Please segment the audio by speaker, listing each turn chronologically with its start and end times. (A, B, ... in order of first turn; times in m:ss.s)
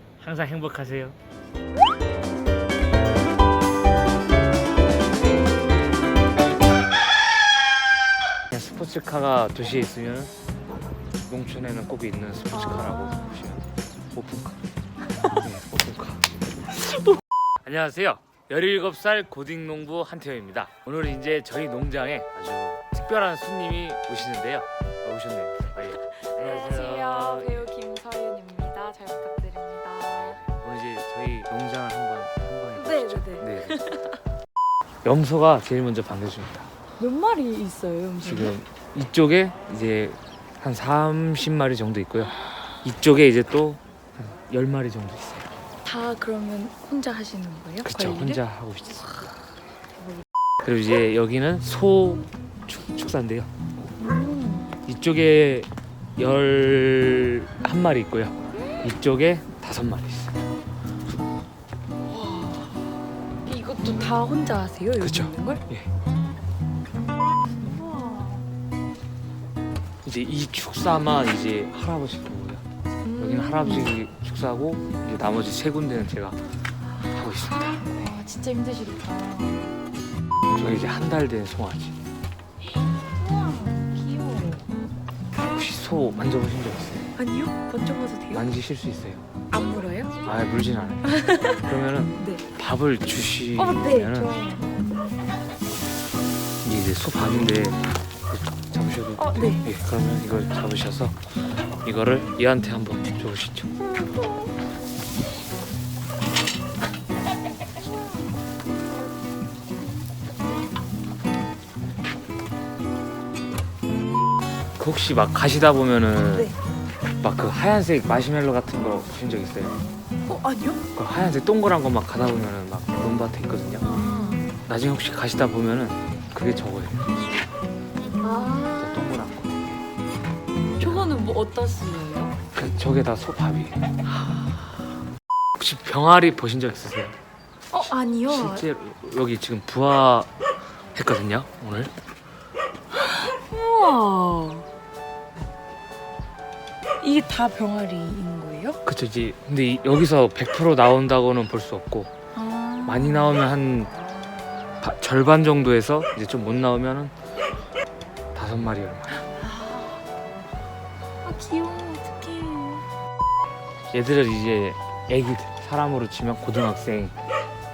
0:00.2-0:01.2 A
0:08.5-0:10.3 A
0:11.3-0:14.6 A
0:12.5-0:13.4 B
0:15.4-0:16.2 A
0:17.6-0:27.7 A
0:26.0-0:30.4 B
0:30.1-0:33.8 A
0:32.7-0:34.2 B
0:35.0-0:36.7 A
0:37.0-0:38.5 B
0:38.2-0:45.5 A
0:45.8-0:48.4 B
0:47.8-0:49.1 A
0:50.6-0:53.5 A
0:54.0-0:54.8 B
0:54.8-1:00.4 A
1:02.1-1:05.6 B
1:05.0-1:05.9 A
1:07.4-1:08.5 B
1:10.0-1:12.6 A
1:13.0-1:13.9 B
1:13.2-1:16.4 A
1:17.1-1:18.1 A
1:17.8-1:19.8 B
1:20.5-1:22.0 A
1:23.1-1:24.6 B
1:25.4-1:27.1 A
1:27.2-1:28.4 B
1:28.3-1:29.2 A
1:29.5-1:30.2 B
1:30.2-1:34.3 A
1:31.0-1:32.4 B
1:33.6-1:34.7 B
1:36.6-1:43.7 A
1:39.2-1:39.6 B
1:43.8-1:44.5 B
1:54.8-1:56.5 A
1:57.2-1:59.8 A
2:00.2-2:00.8 B
2:00.9-2:03.9 A
2:03.8-2:04.5 B
2:04.6-2:07.1 A
2:08.2-2:09.1 B
2:08.7-2:09.8 A
2:10.8-2:12.4 B
2:12.5-2:13.8 A
2:15.6-2:17.2 A
2:17.7-2:18.7 B
2:18.3-2:20.3 A
2:20.9-2:21.9 A
2:22.9-2:24.7 B
2:27.0-2:28.8 B
2:28.8-2:32.1 A
2:32.3-2:33.4 B
2:32.8-2:33.9 A
2:34.8-2:37.1 A
2:38.3-2:39.3 A
2:39.4-2:40.0 B
2:41.2-2:42.8 B
2:43.9-2:47.1 A